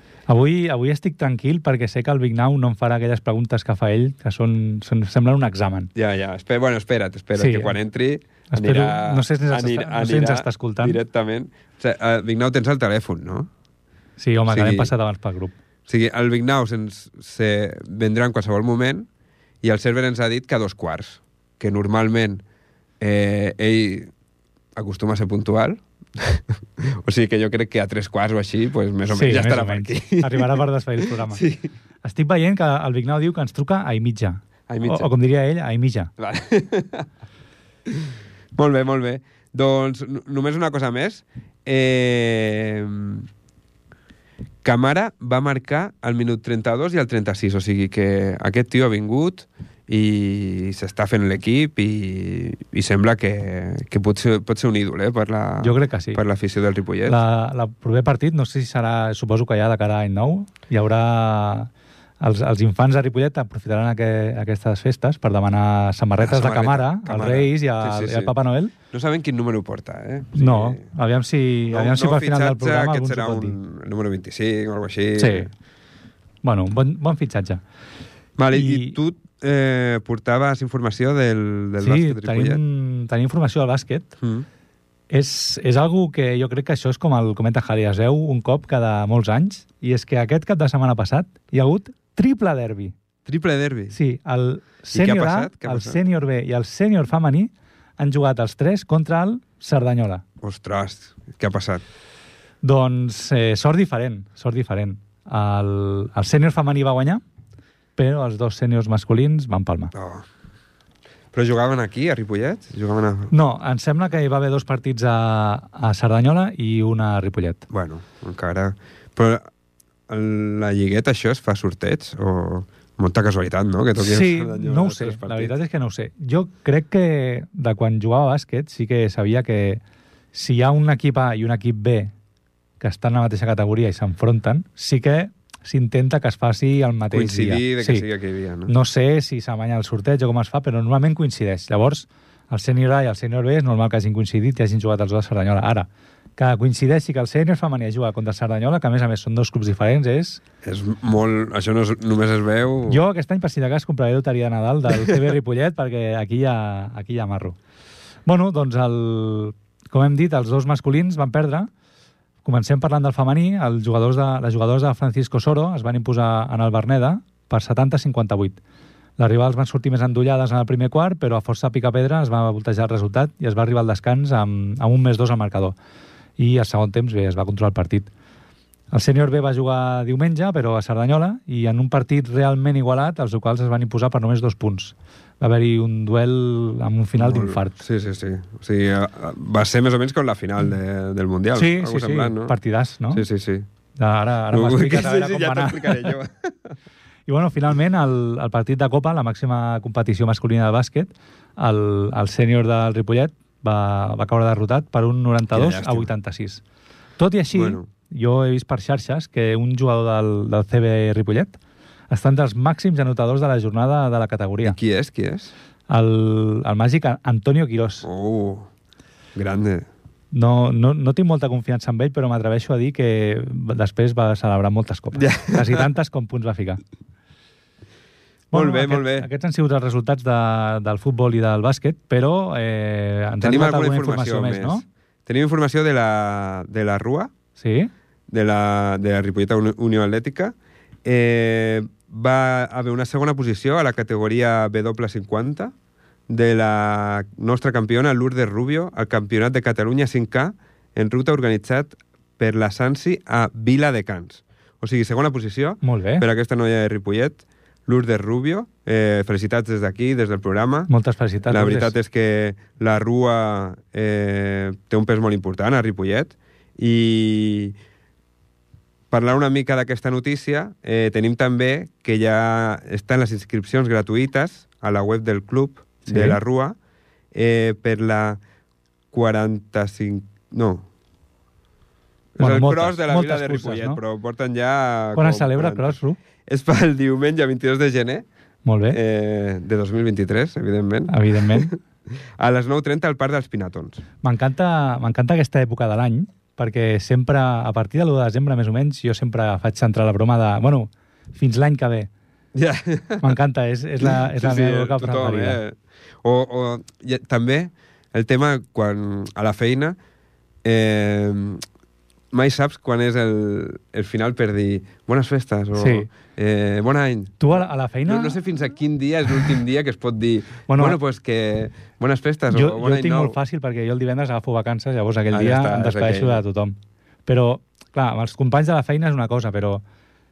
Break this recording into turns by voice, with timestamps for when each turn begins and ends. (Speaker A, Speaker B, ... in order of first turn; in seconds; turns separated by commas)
Speaker A: 0.3-5.9, Speaker B: 5.9-13.5, Speaker A: 7.4-7.8, Speaker A: 8.5-11.0, Speaker A: 14.2-15.6, Speaker B: 14.5-14.9, Speaker B: 15.9-19.1, Speaker B: 19.6-22.4, Speaker B: 23.0-24.1, Speaker B: 24.8-31.7, Speaker A: 29.1-31.4, Speaker A: 32.0-36.1, Speaker B: 34.7-35.1, Speaker B: 36.2-37.1, Speaker B: 37.9-43.3, Speaker B: 44.6-57.2, Speaker A: 55.6-56.2, Speaker A: 57.1-68.7, Speaker B: 66.2-68.3, Speaker B: 68.9-70.9, Speaker A: 70.3-73.6, Speaker B: 71.7-75.5, Speaker A: 75.2-75.5, Speaker A: 76.4-77.6, Speaker B: 78.4-82.6, Speaker A: 78.5-79.0, Speaker A: 81.8-84.1, Speaker B: 84.2-84.5, Speaker A: 85.1-92.9, Speaker B: 93.2-94.0, Speaker A: 93.9-100.2, Speaker B: 94.9-96.0, Speaker B: 100.4-101.8, Speaker A: 102.6-107.2, Speaker A: 108.0-109.9, Speaker B: 109.9-110.2, Speaker B: 111.3-113.3, Speaker A: 113.3-117.6, Speaker B: 117.7-119.5, Speaker B: 120.1-125.5, Speaker A: 124.0-129.8, Speaker A: 130.3-132.1, Speaker A: 132.8-138.1, Speaker B: 137.1-138.7, Speaker A: 138.7-150.4, Speaker B: 150.6-153.0, Speaker A: 152.9-157.6, Speaker A: 158.3-161.7, Speaker A: 162.4-168.6, Speaker A: 169.2-175.7, Speaker A: 176.4-178.1, Speaker A: 178.9-187.8, Speaker B: 187.2-192.6, Speaker A: 191.6-193.2, Speaker B: 193.1-193.7, Speaker A: 194.0-196.2, Speaker B: 194.5-196.7, Speaker A: 197.3-206.6, Speaker B: 205.5-206.1, Speaker A: 207.2-211.6, Speaker B: 207.5-207.9, Speaker A: 212.1-214.8, Speaker B: 214.6-215.5, Speaker A: 215.9-218.1, Speaker B: 218.0-218.7, Speaker B: 219.3-219.9, Speaker A: 220.3-226.8, Speaker B: 225.2-225.9, Speaker B: 228.5-229.3, Speaker A: 228.5-234.8, Speaker B: 233.4-237.3, Speaker A: 237.6-237.9, Speaker B: 238.3-245.7, Speaker B: 246.3-260.9, Speaker A: 255.8-256.3, Speaker A: 260.9-261.9, Speaker B: 261.5-267.7, Speaker B: 269.1-276.8, Speaker A: 276.1-276.4, Speaker B: 277.3-278.4, Speaker B: 279.1-280.9, Speaker B: 282.3-288.2, Speaker A: 282.4-284.0, Speaker A: 285.2-286.2, Speaker A: 288.6-289.0, Speaker B: 288.9-291.8, Speaker A: 291.1-291.7, Speaker B: 292.4-294.0, Speaker A: 294.2-302.1, Speaker B: 302.6-303.3, Speaker A: 303.2-305.6, Speaker B: 304.0-310.0, Speaker B: 310.6-311.6, Speaker B: 312.3-323.4, Speaker A: 315.7-316.1, Speaker A: 317.4-318.4, Speaker A: 320.7-321.0, Speaker A: 322.5-329.8, Speaker B: 325.3-326.4